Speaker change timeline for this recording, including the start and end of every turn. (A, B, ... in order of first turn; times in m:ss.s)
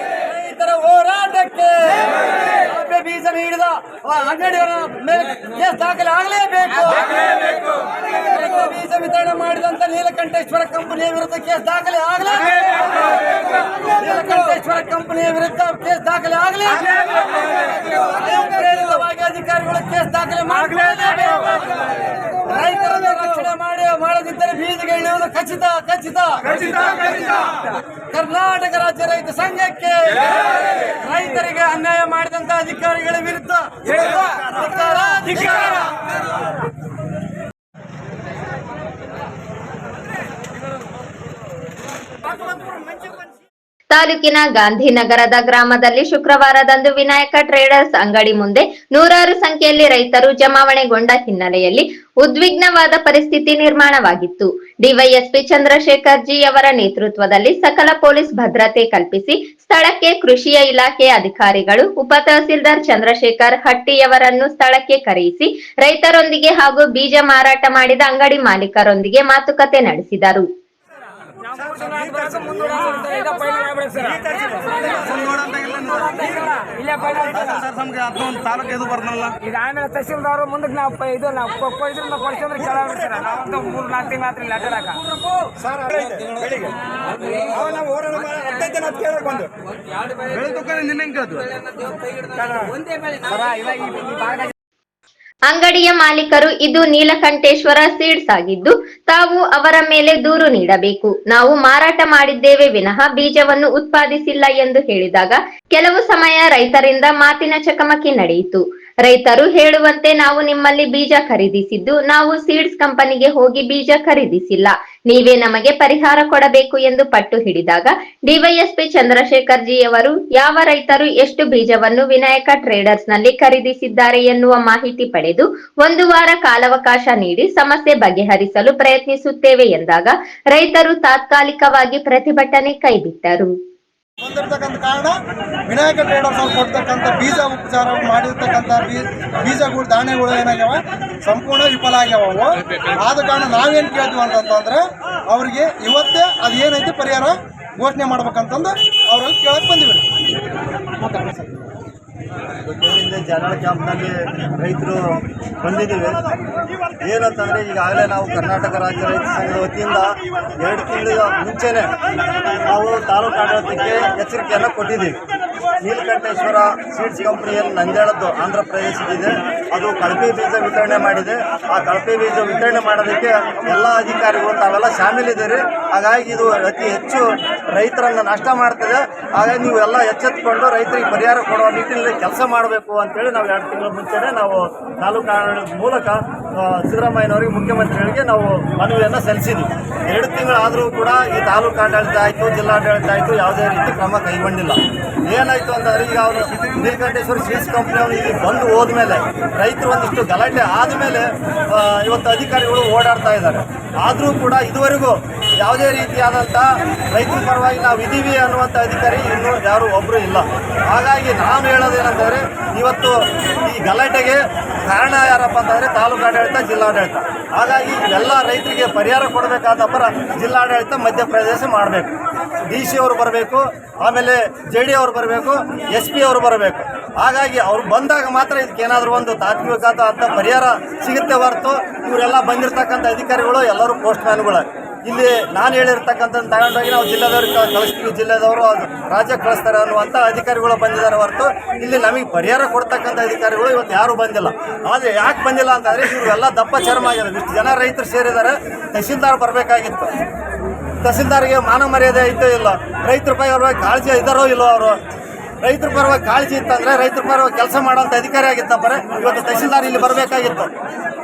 0:00.2-0:07.6 A
0:08.2-0:21.8 A
0:22.4-0:27.6 A
0:28.1-0:35.9 A
0:43.9-1:10.5 B
1:11.6-1:14.1 C
1:12.4-1:13.3 A
1:14.2-1:16.3 D
1:14.9-1:15.8 A
1:16.5-1:17.3 A
1:16.7-1:17.5 C
1:17.7-1:19.3 D
1:19.4-1:25.0 C
1:20.9-1:22.5 A
1:25.6-1:26.8 D
1:27.6-1:29.5 D
1:30.4-1:31.5 D
1:31.6-1:32.3 C
1:33.2-1:34.5 C
1:33.4-1:34.3 A
1:35.5-2:13.5 B
2:14.2-2:15.2 E
2:15.7-2:30.0 E
2:31.0-2:31.6 E
2:32.7-2:35.0 F
2:35.6-2:36.2 F
2:37.0-2:41.9 F
2:42.7-2:45.2 F
2:45.8-3:42.1 F
3:42.7-4:10.1 F
4:11.0-4:15.0 F
4:15.6-4:20.7 F